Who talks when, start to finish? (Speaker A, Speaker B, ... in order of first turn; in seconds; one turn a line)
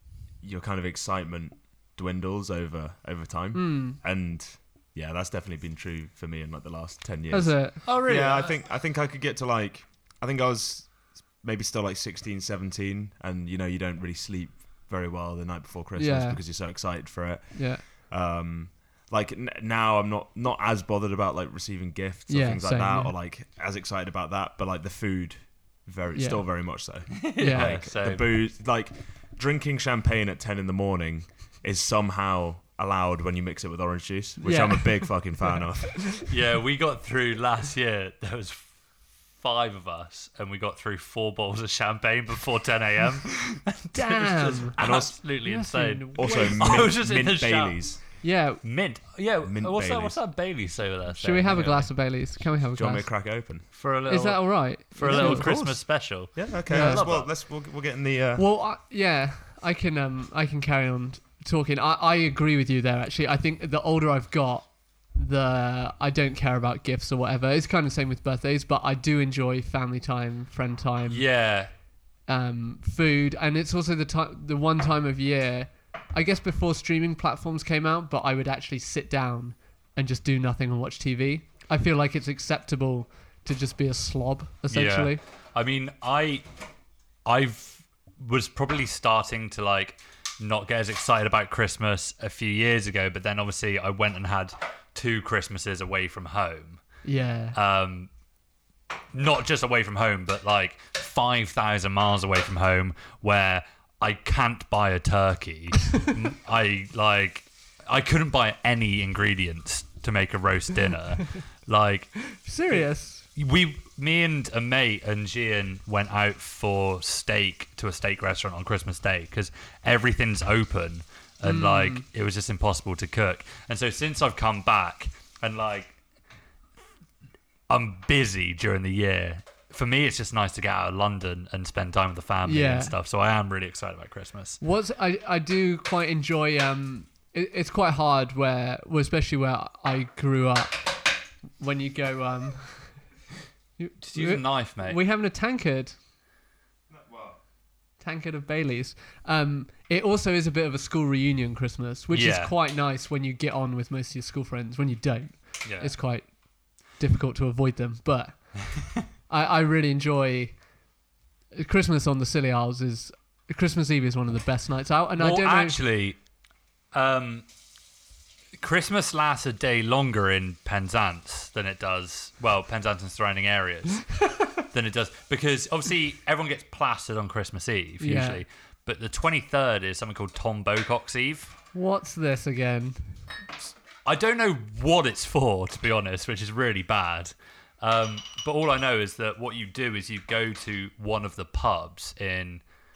Speaker A: 0.4-36.2
Speaker B: 3.5-4.0
Speaker B: 7.3-7.8
Speaker C: 7.8-8.6
Speaker B: 16.0-16.4
Speaker B: 17.5-17.8
Speaker B: 22.3-23.1
Speaker B: 26.1-26.4
Speaker C: 27.1-28.3
Speaker B: 27.4-27.8
Speaker B: 34.4-35.6
Speaker C: 36.3-38.7
Speaker C: 39.4-47.8
Speaker B: 43.9-46.9
Speaker A: 44.8-45.2
Speaker A: 46.1-48.0
Speaker B: 48.2-48.6
Speaker C: 48.6-51.9
Speaker A: 49.4-50.2
Speaker B: 51.1-53.1
Speaker A: 51.5-51.9
Speaker A: 52.7-53.7
Speaker C: 53.7-57.3
Speaker B: 54.1-55.6
Speaker A: 55.0-58.4
Speaker B: 56.7-57.1
Speaker B: 58.4-71.2
Speaker C: 71.1-71.7
Speaker B: 72.3-85.2
Speaker C: 84.7-86.4
Speaker C: 87.2-96.8
Speaker B: 97.0-97.5
Speaker C: 97.5-98.1
Speaker C: 99.1-126.0
Speaker B: 112.3-113.2
Speaker B: 121.4-122.0
Speaker C: 127.7-134.6
Speaker B: 132.4-132.9
Speaker B: 134.6-143.0
Speaker B: 143.8-145.9
Speaker C: 144.0-145.0
Speaker A: 146.9-147.4
Speaker B: 148.0-158.8
Speaker C: 152.1-152.5
Speaker C: 155.6-155.9
Speaker B: 159.3-160.6
Speaker B: 161.5-165.8
Speaker C: 165.2-166.2
Speaker C: 166.9-167.4
Speaker C: 168.6-181.6
Speaker B: 178.0-178.4
Speaker B: 181.7-183.0
Speaker C: 184.0-192.6